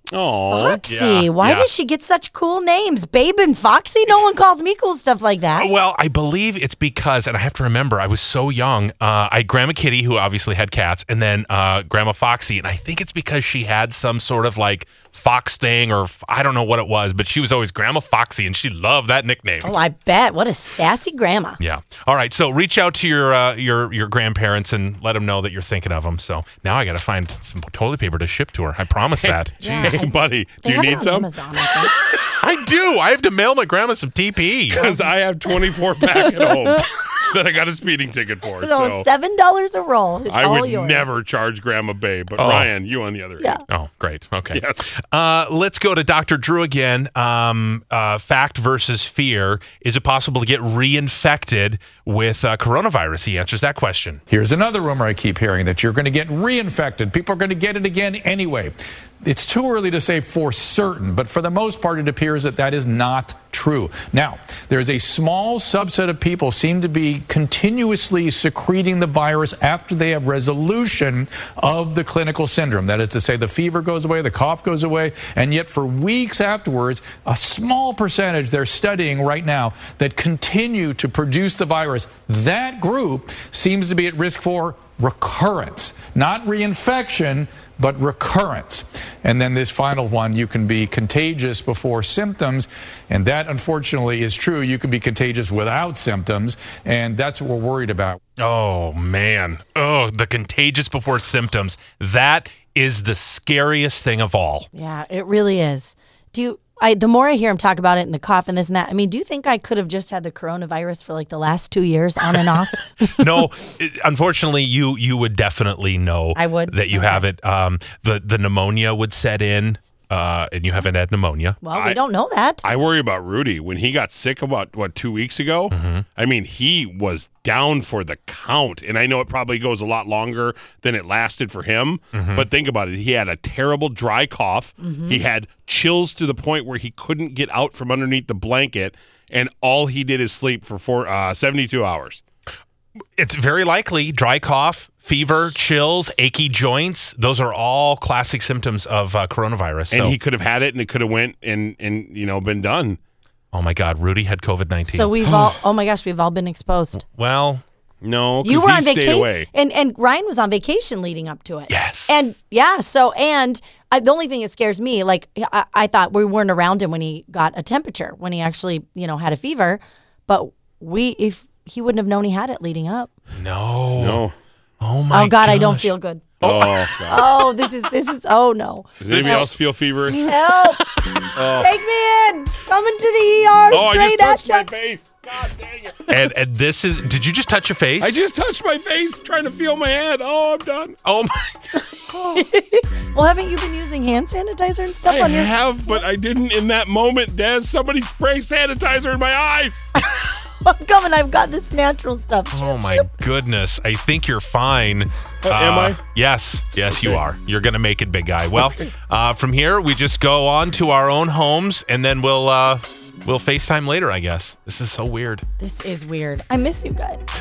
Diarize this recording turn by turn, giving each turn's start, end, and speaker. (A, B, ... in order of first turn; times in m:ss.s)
0:00.1-0:00.8 A
0:00.5-0:05.7 B
0:00.9-0:01.7 C
0:05.5-0:19.7 C
0:19.6-0:21.6 B
0:21.6-0:30.0 C
0:29.2-0:31.3 A
0:29.6-0:31.9 B
0:31.9-0:34.8 C
0:34.7-0:39.0 A
0:34.8-0:35.5 B
0:36.2-0:36.6 B
0:38.6-0:41.1 B
0:40.3-0:43.6 A
0:42.4-0:42.7 C
0:43.7-0:54.2 C
0:44.5-0:44.9 A
0:54.3-1:38.2 D
1:38.4-1:44.7 C
1:44.7-1:53.4 B
1:53.2-2:01.6 C
1:56.4-1:57.3 B
2:01.6-2:02.6 B
2:01.7-2:02.0 A
2:02.6-2:22.2 A
2:05.7-2:06.0 C
2:12.1-2:12.5 C
2:14.8-2:15.2 B
2:23.2-2:30.2 C
2:29.9-2:33.0 A
2:33.5-2:35.2 C
2:34.9-2:37.0 B
2:37.0-2:37.6 C
2:38.0-2:39.5 A
2:38.4-2:53.1 B
2:41.7-2:42.3 C
2:53.4-2:54.2 C
2:54.0-2:54.3 A
2:54.8-2:55.9 C
2:55.1-2:59.5 B
2:56.4-2:57.4 A
2:56.4-2:57.2 C
2:59.0-3:00.3 A
3:00.1-3:04.7 B
3:01.4-3:01.7 A
3:03.7-3:06.1 A
3:06.1-3:08.2 C
3:08.0-3:11.0 A
3:11.0-3:11.6 C
3:12.3-3:15.5 B
3:15.1-3:19.8 A
3:20.0-3:23.1 B
3:22.5-3:35.4 C
3:25.4-3:26.0 A
3:35.6-3:37.3 B